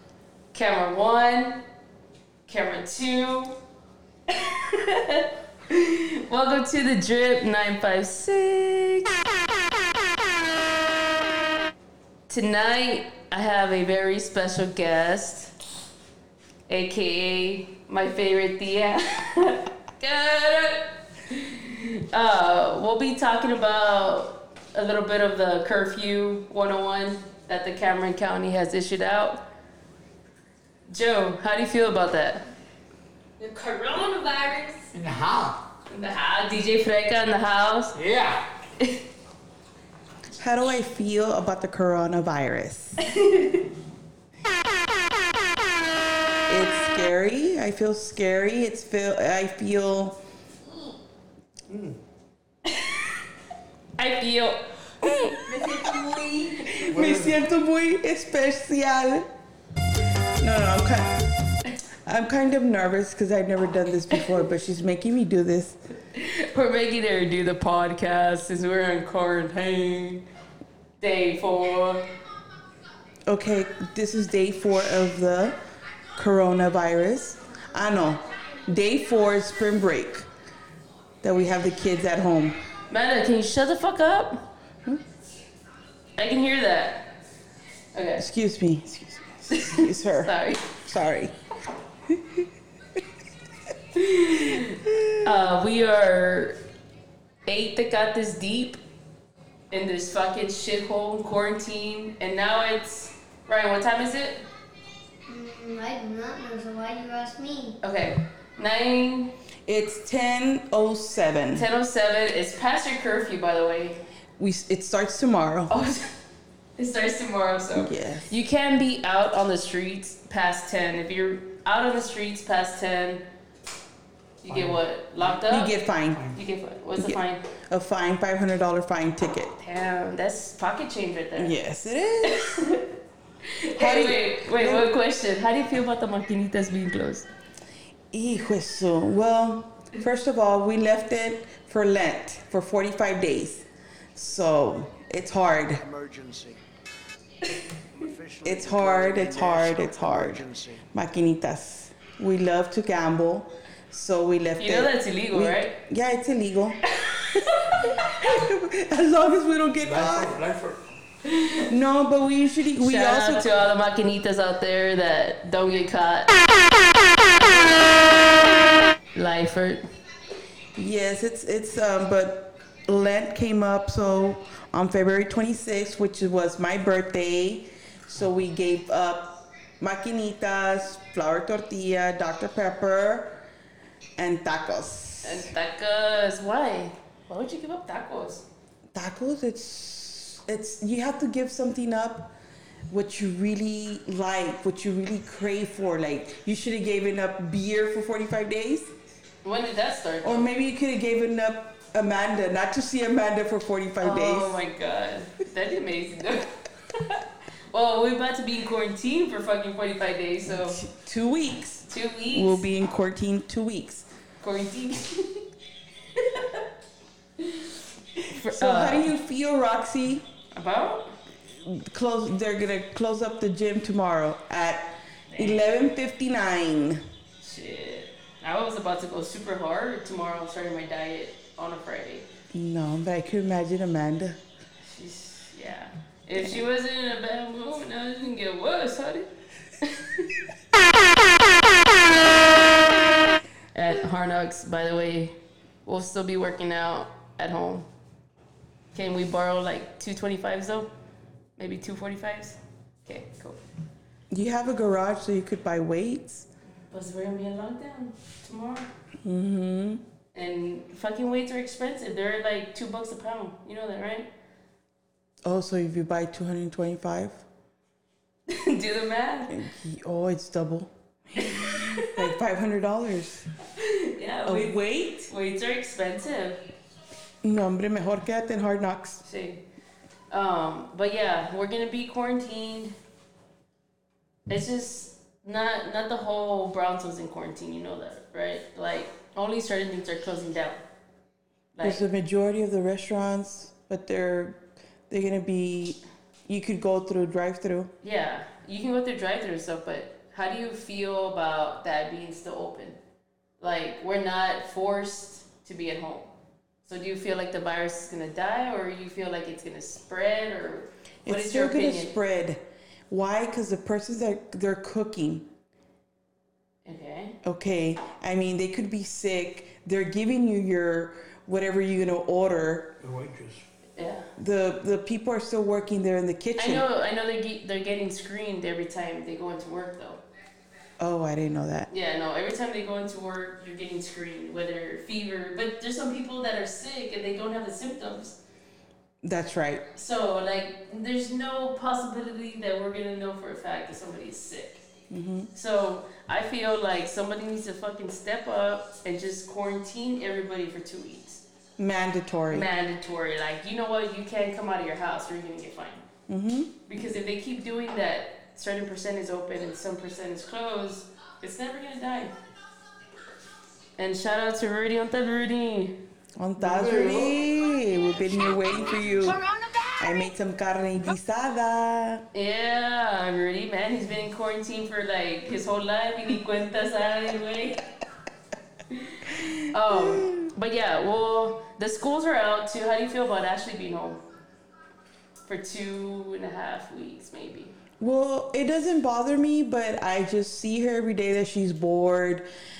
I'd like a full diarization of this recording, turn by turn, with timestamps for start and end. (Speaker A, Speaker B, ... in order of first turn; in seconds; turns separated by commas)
Speaker A: 0.5-1.6, Speaker A: 2.5-3.6, Speaker A: 4.3-9.2, Speaker A: 12.3-15.5, Speaker A: 16.7-29.4, Speaker A: 30.9-32.4, Speaker A: 33.4-34.9, Speaker B: 34.9-35.6, Speaker A: 35.9-38.0, Speaker B: 37.9-38.5, Speaker A: 38.8-39.0, Speaker C: 40.4-43.0, Speaker A: 43.0-43.7, Speaker C: 46.5-50.2, Speaker B: 51.7-52.0, Speaker A: 52.6-53.2, Speaker A: 54.0-55.8, Speaker D: 55.5-56.7, Speaker C: 56.5-59.3, Speaker B: 56.7-57.4, Speaker C: 60.4-61.1, Speaker C: 62.0-65.8, Speaker A: 66.1-70.2, Speaker A: 71.0-72.1, Speaker C: 73.3-75.6, Speaker C: 76.1-80.3, Speaker C: 81.2-82.6, Speaker A: 82.9-84.4, Speaker A: 86.1-87.0, Speaker A: 87.9-88.2, Speaker C: 88.2-91.3, Speaker A: 89.5-90.8, Speaker C: 92.1-92.5, Speaker A: 93.9-96.6, Speaker C: 94.8-95.2, Speaker A: 97.5-98.8, Speaker A: 99.7-104.4, Speaker D: 105.3-107.7, Speaker A: 107.8-109.3, Speaker C: 109.7-111.7, Speaker A: 111.5-114.0, Speaker C: 114.4-115.7, Speaker A: 115.7-116.1, Speaker A: 116.8-123.2, Speaker C: 117.7-118.3, Speaker A: 124.4-125.7, Speaker B: 124.5-124.8, Speaker C: 125.4-126.3, Speaker A: 126.3-127.4, Speaker C: 127.0-129.5, Speaker A: 129.6-131.7, Speaker C: 131.3-132.6, Speaker A: 132.2-132.9, Speaker A: 133.5-137.3, Speaker C: 133.8-134.9, Speaker C: 138.1-143.6, Speaker C: 144.2-145.8, Speaker E: 145.8-146.6, Speaker E: 147.9-150.8, Speaker C: 148.4-156.8, Speaker A: 154.6-155.8, Speaker A: 156.9-158.1, Speaker C: 157.9-160.4, Speaker B: 159.8-160.8, Speaker A: 161.2-161.7, Speaker C: 161.7-163.5, Speaker A: 162.8-166.4, Speaker A: 167.3-168.0, Speaker A: 169.1-169.8, Speaker C: 170.7-183.4, Speaker C: 184.2-185.5, Speaker A: 185.2-188.4, Speaker C: 188.9-192.3, Speaker C: 192.9-198.9, Speaker A: 199.4-200.5, Speaker C: 200.2-204.5, Speaker A: 204.0-210.8, Speaker C: 210.5-214.1, Speaker A: 211.9-212.7, Speaker A: 214.4-215.5, Speaker A: 216.1-216.7, Speaker A: 217.4-219.1, Speaker C: 218.5-220.2, Speaker A: 220.5-221.1, Speaker C: 221.5-227.0, Speaker A: 225.3-225.6, Speaker A: 227.4-232.3, Speaker C: 232.5-234.4, Speaker A: 234.8-239.3, Speaker A: 239.8-240.4, Speaker A: 243.7-247.9, Speaker A: 248.9-250.9, Speaker A: 251.6-253.6, Speaker C: 254.3-256.5, Speaker A: 256.9-258.9, Speaker C: 259.2-260.0, Speaker A: 260.3-264.3, Speaker C: 265.4-267.4, Speaker A: 268.5-269.6, Speaker C: 269.5-273.5, Speaker A: 271.4-272.1, Speaker A: 273.7-276.6, Speaker C: 274.4-275.3, Speaker C: 277.4-279.2, Speaker A: 279.2-279.6, Speaker A: 280.3-282.9, Speaker A: 284.5-290.8, Speaker A: 291.7-292.0, Speaker C: 291.8-297.9, Speaker A: 298.0-303.0, Speaker A: 303.6-306.3, Speaker A: 306.8-312.1, Speaker C: 311.2-315.5, Speaker A: 316.8-317.4, Speaker C: 317.4-322.9, Speaker B: 323.0-323.6, Speaker A: 323.9-324.3, Speaker C: 324.4-326.9, Speaker A: 326.6-330.2, Speaker C: 331.0-331.9, Speaker A: 331.9-338.4, Speaker C: 339.2-339.8, Speaker A: 339.9-344.9, Speaker C: 345.1-345.5, Speaker A: 345.5-351.4, Speaker C: 351.8-352.7, Speaker A: 352.5-356.0, Speaker C: 356.3-356.8, Speaker A: 356.9-362.3, Speaker A: 364.0-366.0, Speaker C: 366.4-369.4, Speaker B: 366.6-367.4, Speaker D: 369.3-370.0, Speaker C: 369.9-372.2, Speaker A: 372.3-377.8, Speaker A: 378.9-384.2, Speaker C: 379.4-380.5, Speaker A: 385.5-387.8, Speaker C: 388.0-392.4